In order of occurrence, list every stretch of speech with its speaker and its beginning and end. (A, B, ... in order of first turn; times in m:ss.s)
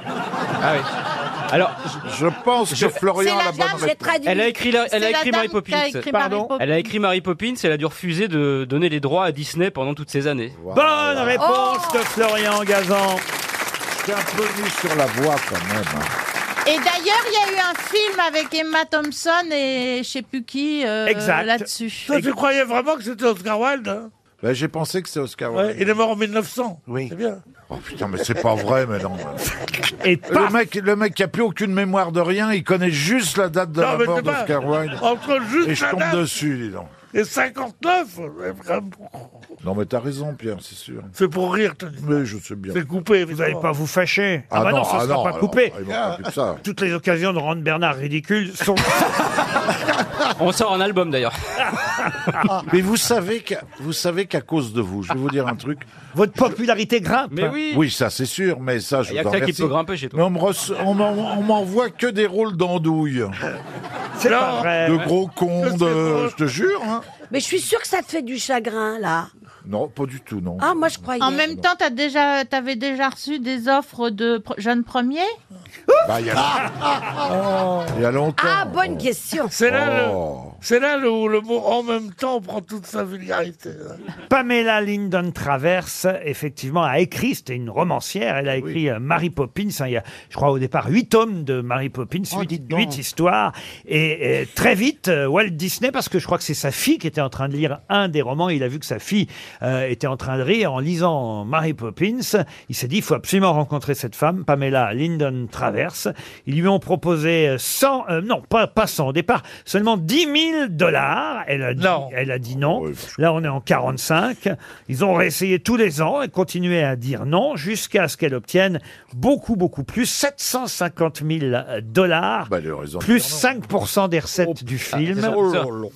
0:00.6-0:00.8 A
0:01.5-0:02.0 A
0:02.0-0:04.2 B
0:03.2-0:03.9 C
0:03.6-0:04.4 D
0:04.2-0:10.5 A
0:04.7-0:06.9 C
0:10.6-0:11.5 B
0:10.7-0:13.2 E
0:11.4-0:11.8 D
0:13.9-0:16.1 B
0:16.6-0:22.1 C
0:21.0-0:22.3 E
0:22.1-0:24.1 F
0:24.4-0:26.0 B
0:25.5-0:27.4 F
0:27.7-0:29.7 B
0:30.0-0:30.6 E
0:30.3-0:35.0 B
0:33.8-0:36.2 F
0:35.6-0:37.0 B
0:37.1-0:39.4 F
0:39.6-0:41.1 B
0:41.1-0:42.0 F
0:42.0-0:42.9 B
0:42.7-0:43.6 F
0:43.3-0:45.8 E
0:44.5-0:46.6 B
0:46.6-0:49.1 E
0:50.4-0:51.3 A
0:52.7-0:55.8 B
0:56.1-0:57.6 E
0:57.3-0:57.8 A
0:57.7-1:03.4 B
0:59.1-1:00.2 A
1:04.2-1:05.1 E
1:04.2-1:04.9 F
1:04.8-1:07.0 B
1:05.6-1:06.3 F
1:07.3-1:09.1 D
1:09.6-1:11.6 B
1:10.6-1:11.4 D
1:11.2-1:15.3 C
1:16.0-1:17.1 B
1:17.3-1:17.8 F
1:17.9-1:20.6 B
1:18.4-1:19.4 D
1:19.5-1:24.0 F
1:24.3-2:05.4 E
1:51.8-1:52.1 F
1:52.5-1:53.1 B
2:02.5-2:03.7 B
2:05.1-2:05.7 A